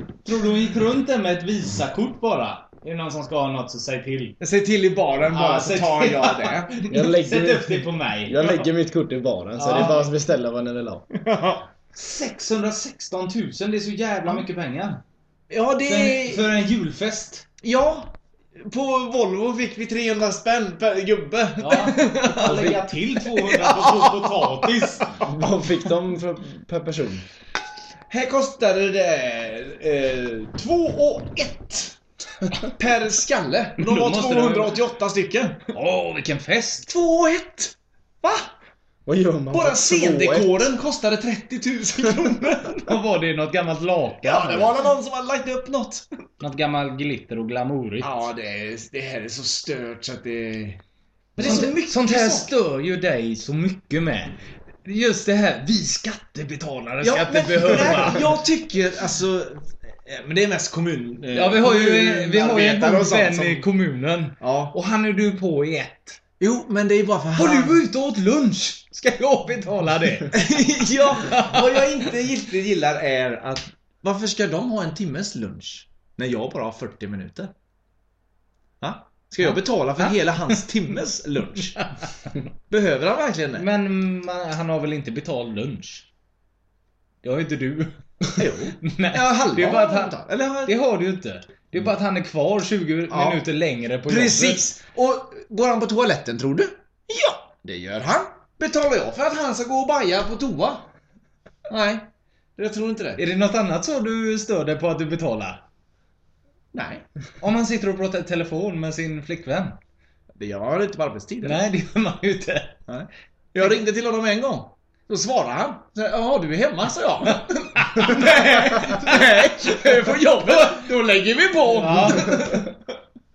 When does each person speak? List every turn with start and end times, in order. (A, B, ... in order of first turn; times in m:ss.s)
0:00.2-0:04.4 A
0:04.4-0:07.0 B
0:05.3-0:08.6 A
0:06.9-0:11.1 C
0:09.6-0:10.1 A
0:11.1-0:11.7 B
0:12.0-0:15.0 A
0:15.5-0:16.5 B
0:15.8-0:17.4 A
0:17.6-0:25.2 B
0:21.6-0:25.1 A
0:25.2-0:27.3 C
0:28.1-0:32.0 B
0:32.6-0:35.7 B
0:33.8-0:34.8 A
0:35.7-0:36.9 A
0:36.9-0:38.5 B
0:39.1-0:40.7 C
0:39.5-0:42.9 B
0:42.9-0:44.7 A
0:44.2-0:46.1 B
0:46.4-0:48.3 A
0:48.0-0:50.8 B
0:51.4-0:52.5 B
0:51.4-0:58.2 A
0:57.0-1:03.7 B
1:01.3-1:06.2 A
1:04.4-1:04.7 B
1:06.4-1:07.8 B
1:07.4-1:10.4 A
1:10.3-1:17.5 B
1:11.2-1:11.9 A
1:18.8-1:21.9 B
1:19.4-1:20.1 A
1:22.7-1:23.6 B
1:23.6-1:26.1 A
1:27.2-1:28.0 A
1:28.4-1:30.8 B
1:28.8-1:34.6 A
1:33.1-1:33.4 B
1:34.1-1:40.9 B
1:41.7-1:43.2 B
1:43.2-1:45.6 A
1:46.7-1:47.0 B
1:47.4-1:49.8 A
1:50.4-1:51.6 B
1:51.4-1:52.8 A
1:52.9-2:02.8 B
1:57.8-1:59.9 A
2:01.7-2:02.6 A